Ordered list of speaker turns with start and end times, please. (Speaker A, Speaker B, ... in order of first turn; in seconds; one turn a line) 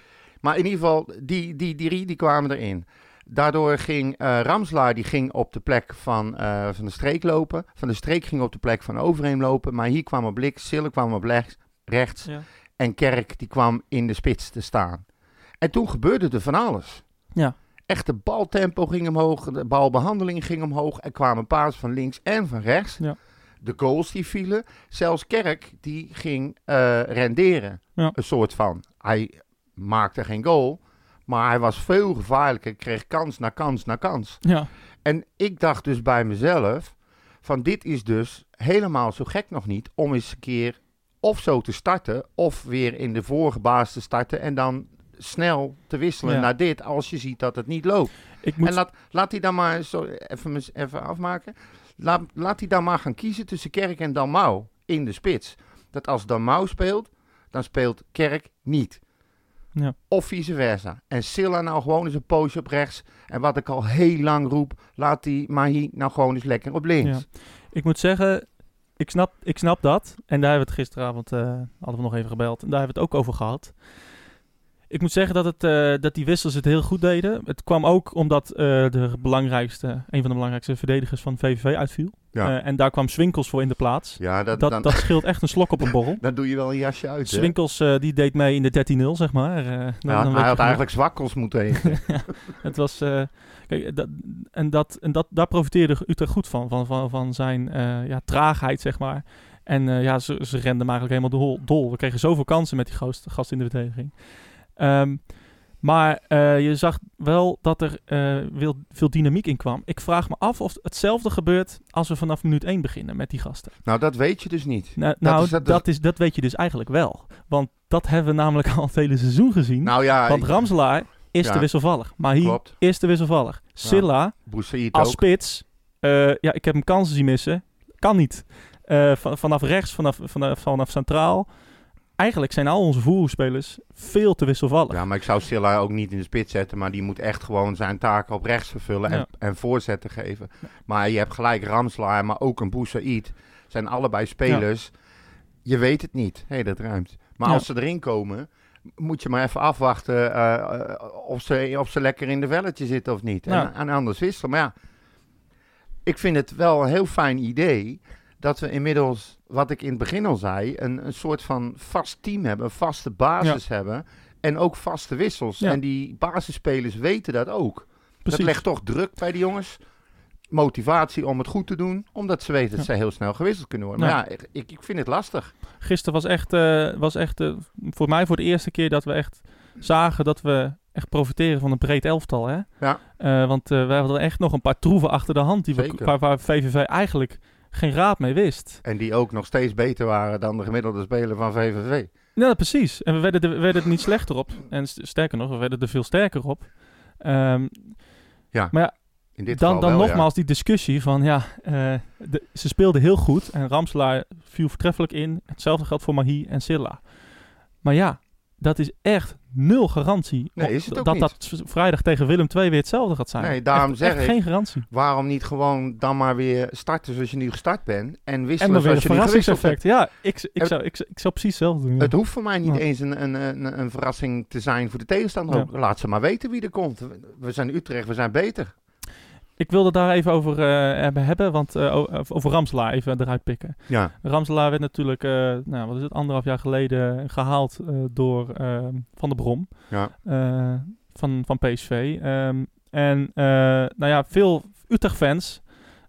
Speaker A: 0.4-15.0
Speaker A: 15.6-17.0
Speaker A: 17.9-23.1
Speaker A: 23.6-34.4
Speaker B: 34.4-34.7
Speaker A: 35.0-59.0
Speaker B: 46.2-46.5
Speaker B: 48.4-48.8
Speaker A: 60.1-67.2
Speaker B: 67.0-74.1
Speaker B: 74.9-86.2
Speaker A: 84.2-85.6
Speaker A: 86.2-87.5
Speaker B: 87.2-91.4
Speaker A: 90.1-92.3
Speaker B: 91.9-113.8
Speaker A: 113.8-115.8
Speaker B: 115.0-131.6
Speaker A: 119.8-122.8
Speaker A: 123.8-125.2
Speaker B: 132.1-135.1
Speaker A: 134.9-144.9
Speaker A: 145.6-154.7
Speaker A: 156.0-169.8
Speaker B: 168.2-168.6
Speaker A: 170.5-175.5
Speaker B: 175.8-188.8
Speaker A: 185.7-186.1
Speaker A: 188.8-192.1
Speaker B: 192.3-214.8
Speaker A: 198.5-200.3
Speaker A: 210.6-211.3
Speaker A: 213.4-220.8
Speaker B: 218.6-222.8
Speaker A: 222.0-228.7
Speaker B: 229.6-245.8
Speaker A: 233.9-234.1